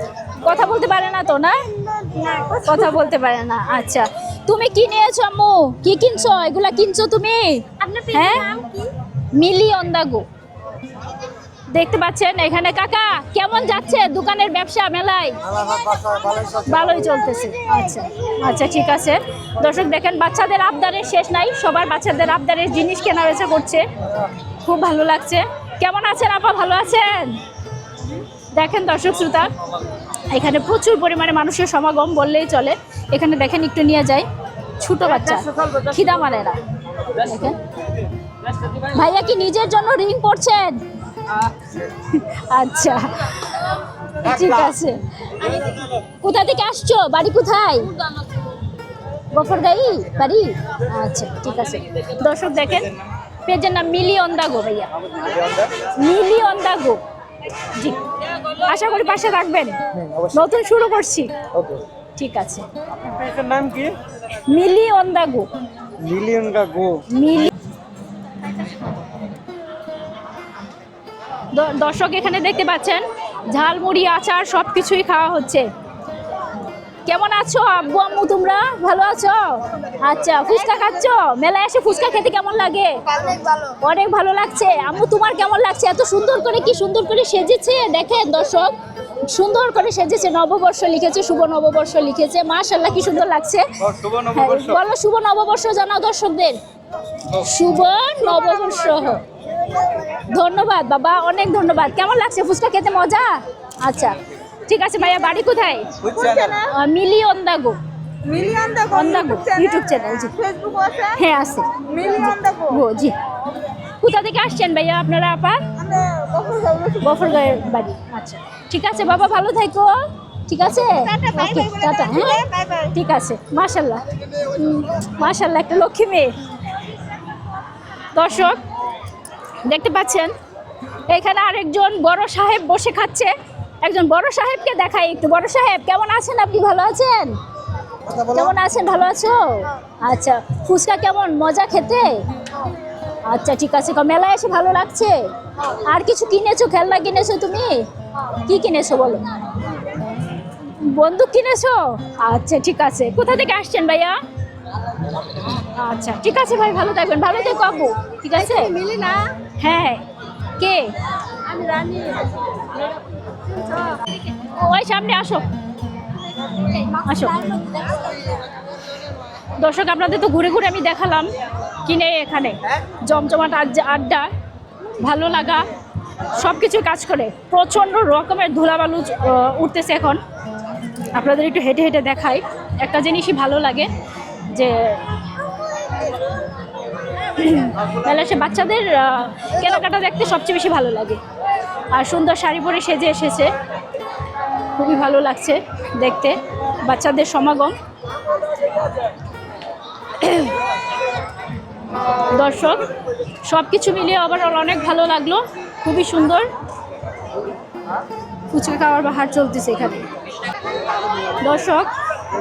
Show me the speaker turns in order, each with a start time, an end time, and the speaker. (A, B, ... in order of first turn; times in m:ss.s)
0:00.4-0:01.6 A
0:01.7-0:02.8 B
0:02.6-0:08.5 A
0:07.8-0:08.9 B
0:09.4-0:10.2 A
0:11.7-0:15.4 A
0:15.5-0:16.6 C
0:16.6-0:23.8 A
0:24.6-0:27.4 A
0:28.5-0:29.5 A
0:30.3-0:34.3 A
0:34.8-0:36.6 A
0:37.2-0:37.6 A
0:38.8-0:40.8 A
0:42.1-0:45.0 A
0:46.2-0:47.9 A
0:49.3-0:52.9 A
0:53.4-0:54.9 A
0:55.2-0:55.7 C
0:56.0-0:57.0 A
0:57.7-0:58.0 A
0:58.6-0:59.8 A
0:59.9-1:00.4 C
1:00.3-1:01.3 A
1:01.5-1:01.8 C
1:02.2-1:02.6 A
1:03.1-1:03.9 C
1:04.4-1:05.5 A
1:06.0-1:07.0 C
1:07.1-1:07.5 A
1:11.5-1:15.7 A
1:17.1-1:23.0 A
1:23.1-1:23.8 B
1:23.8-1:33.7 A
1:33.8-1:34.8 C
1:34.3-1:36.6 A
1:37.3-1:39.2 A
1:40.3-1:45.9 A
1:46.0-1:46.6 C
1:46.1-1:46.7 B
1:46.7-1:47.8 A
1:48.2-1:51.2 B
1:48.9-1:50.4 A
1:51.2-1:53.2 A
1:51.7-1:52.8 B
1:54.0-1:55.6 A
1:55.8-1:57.2 B
1:57.0-1:59.9 A
2:00.5-2:06.3 A
2:00.9-2:02.9 B
2:08.1-2:08.6 A
2:09.6-2:10.3 A
2:11.1-2:13.3 A
2:13.8-2:17.4 A
2:18.2-2:22.2 A
2:23.3-2:29.2 A
2:30.6-2:34.2 A
2:35.5-2:38.8 A
2:38.4-2:39.4 B
2:39.6-2:40.0 A
2:40.6-2:40.9 A
2:41.5-2:42.8 B
2:43.5-2:44.0 B
2:44.4-2:45.5 A
2:46.9-2:47.6 A
2:47.6-2:48.1 B
2:49.6-2:51.3 A
2:51.8-2:54.3 A
2:55.0-2:55.7 A
2:56.3-3:00.2 A
3:01.1-3:03.9 A
3:04.5-3:05.0 A
3:07.2-3:11.2 A
3:11.9-3:13.5 A
3:14.8-3:17.8 A
3:20.2-3:20.6 A
3:22.3-3:22.8 A
3:23.4-3:26.5 A
3:28.5-3:30.0 A
3:31.4-3:31.9 A